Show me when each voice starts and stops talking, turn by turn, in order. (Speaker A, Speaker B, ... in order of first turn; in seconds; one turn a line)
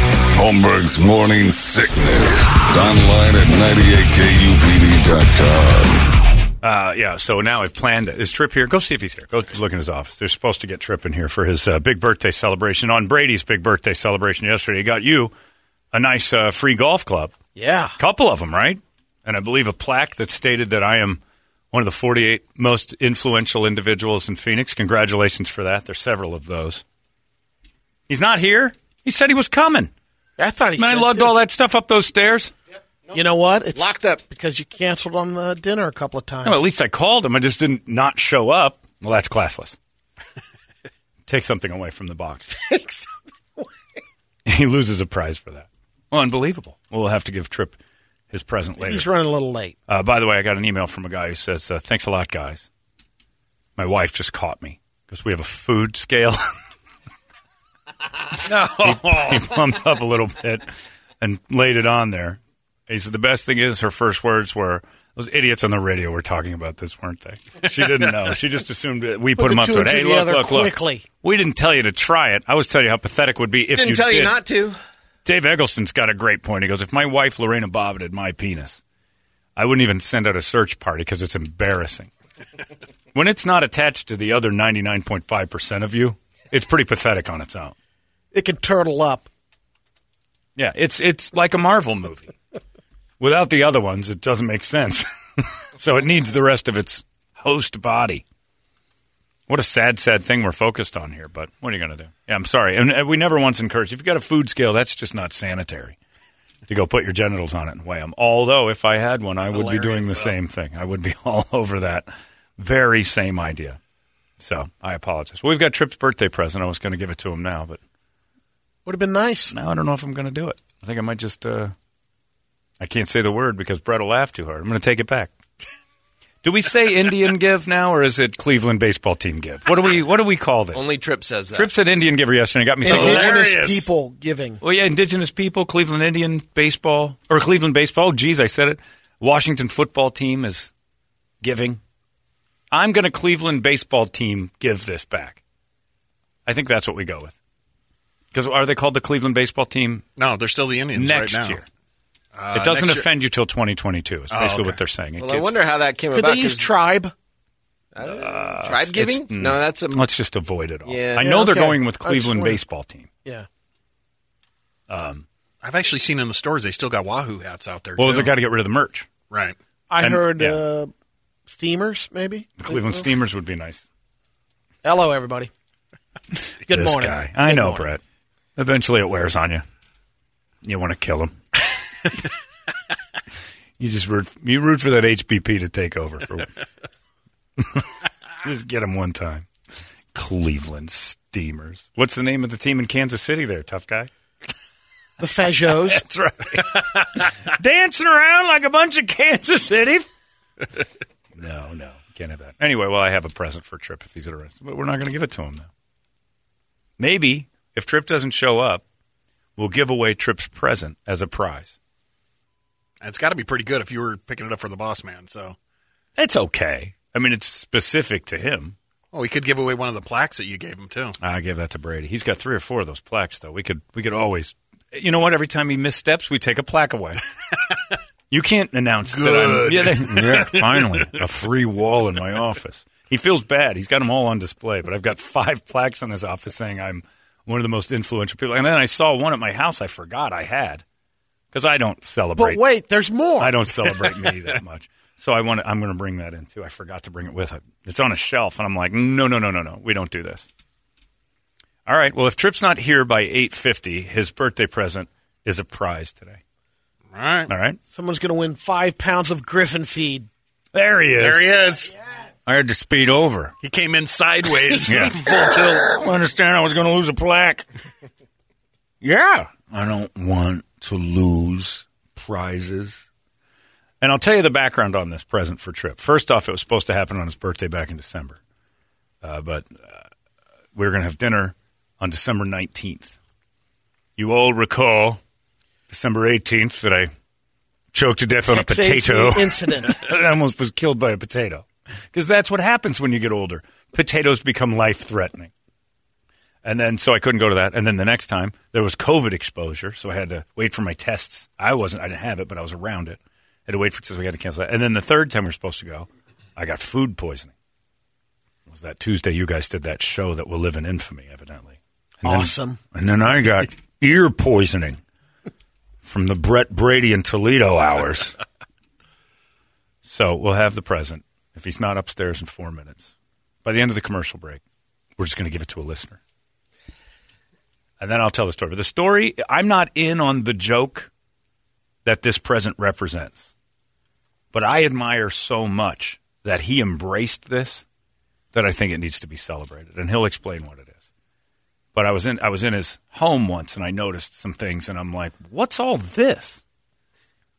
Speaker A: 0.3-6.1
Speaker B: 6.6-15.3
Speaker B: 15.9-17.3
Speaker C: 17.6-18.0
Speaker B: 18.0-21.2
Speaker B: 21.7-26.8
Speaker B: 28.1-29.9
Speaker C: 30.4-31.3
Speaker B: 30.8-32.5
Speaker C: 33.1-36.6
Speaker B: 36.4-39.8
Speaker B: 41.3-42.6
Speaker C: 42.6-43.7
Speaker B: 44.5-47.8
Speaker B: 48.3-49.1
Speaker C: 48.8-49.8
Speaker B: 49.9-52.7
Speaker B: 53.8-56.4
Speaker B: 58.5-74.4
Speaker C: 69.4-71.0
Speaker C: 73.8-74.8
Speaker B: 75.2-78.8
Speaker B: 79.6-82.1
Speaker B: 83.1-87.8
Speaker C: 88.3-89.3
Speaker B: 90.6-92.3
Speaker B: 93.2-98.2
Speaker B: 99.5-106.0
Speaker B: 106.7-113.8
Speaker C: 109.4-110.3
Speaker B: 114.4-117.8
Speaker C: 118.9-119.5
Speaker B: 119.5-121.8
Speaker B: 122.8-125.3
Speaker B: 126.4-130.9
Speaker D: 130.7-131.7
Speaker B: 131.5-133.4
Speaker C: 132.8-134.6
Speaker E: 132.9-133.9
Speaker B: 134.6-140.7
Speaker B: 141.4-141.8
Speaker B: 142.7-145.4
Speaker B: 146.5-147.4
Speaker B: 148.3-150.1
Speaker E: 150.2-151.6
Speaker B: 150.9-151.7
Speaker E: 152.3-153.1
Speaker B: 152.5-155.6
Speaker E: 154.3-154.8
Speaker D: 155.2-156.7
Speaker C: 156.1-157.1
Speaker D: 157.9-160.1
Speaker B: 158.0-163.1
Speaker D: 160.8-161.2
Speaker C: 161.2-162.6
Speaker B: 164.9-165.3
Speaker E: 165.6-168.3
Speaker B: 168.0-169.1
Speaker E: 169.3-169.6
Speaker C: 169.9-170.9
Speaker B: 170.0-170.6
Speaker C: 171.5-173.1
Speaker B: 172.6-173.9
Speaker C: 174.8-175.5
Speaker B: 176.3-178.0
Speaker C: 176.7-177.9
Speaker B: 178.6-179.6
Speaker B: 180.6-182.1
Speaker B: 183.8-186.6
Speaker B: 187.6-189.5
Speaker B: 190.1-194.1
Speaker C: 195.2-196.0
Speaker B: 195.8-200.1
Speaker B: 201.4-205.7
Speaker B: 207.0-208.8
Speaker B: 209.6-211.8
Speaker E: 213.0-215.6
Speaker B: 216.2-218.8
Speaker E: 219.1-221.2
Speaker B: 221.2-227.2
Speaker B: 228.3-240.8
Speaker E: 229.1-231.1
Speaker B: 241.5-242.6
Speaker C: 242.4-243.6
Speaker B: 243.4-250.5
Speaker B: 251.9-256.4
Speaker E: 257.1-257.5
Speaker B: 257.5-257.8
Speaker C: 257.9-260.3
Speaker B: 260.7-261.5
Speaker E: 261.2-261.9
Speaker B: 262.5-263.5
Speaker E: 263.6-265.9
Speaker B: 264.9-267.7
Speaker B: 269.0-273.1
Speaker B: 274.0-278.4
Speaker B: 279.2-280.1
Speaker B: 280.7-283.2
Speaker B: 284.2-285.2
Speaker B: 285.9-287.1
Speaker B: 287.9-295.5
Speaker C: 288.5-290.0
Speaker B: 296.6-307.5
Speaker B: 308.7-315.0
Speaker C: 312.2-312.8
Speaker B: 316.0-318.4
Speaker B: 320.0-323.1
Speaker B: 323.6-324.6
Speaker B: 325.2-326.2
Speaker B: 328.0-331.1
Speaker B: 332.1-333.5
Speaker B: 334.5-337.9
Speaker B: 338.5-341.1
Speaker B: 341.9-346.6